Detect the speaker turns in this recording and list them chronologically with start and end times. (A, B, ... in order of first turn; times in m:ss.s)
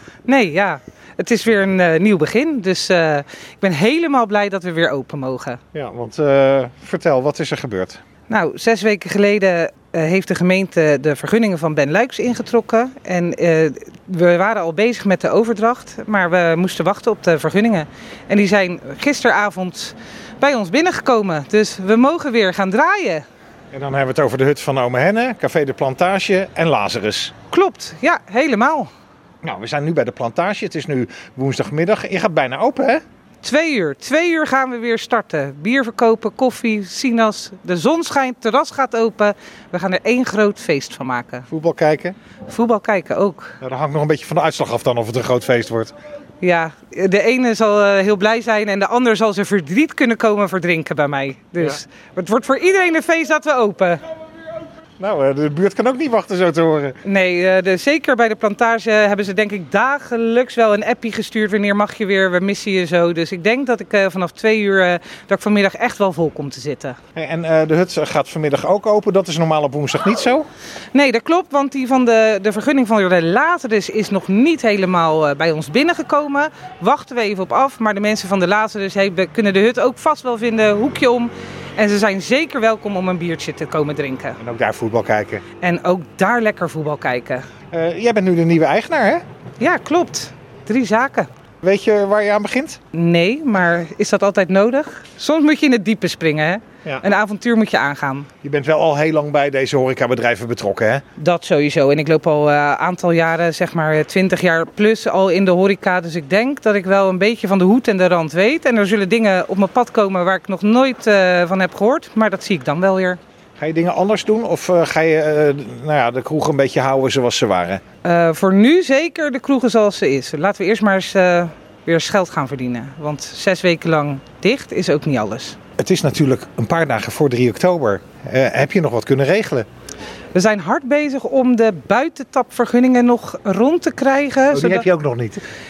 0:00.3-0:05.6 A
0:05.7-0:08.0 B
0:08.3-0:23.2 A
0:23.7-0:27.3 B
0:27.5-0:28.9 A
0:29.4-0:33.0 B
0:33.4-0:41.5 A
0:41.5-0:42.2 B
0:42.5-0:43.6 A
0:43.6-0:45.9 B
0:46.4-0:54.0 A
0:55.0-0:57.0 B
0:57.0-1:07.0 A
1:07.2-1:10.5 B
1:10.9-1:24.4 A
1:24.4-1:25.4 B
1:25.6-1:27.4 A
1:27.7-1:29.2 B
1:29.6-1:31.3 A
1:31.6-1:32.8 B
1:32.9-1:38.3 A
1:38.4-1:41.0 B
1:41.2-1:53.2 A
1:53.6-1:57.8 B
1:58.0-2:05.6 A
2:05.8-2:09.7 B
2:10.3-2:14.9 A
2:14.5-2:15.4 B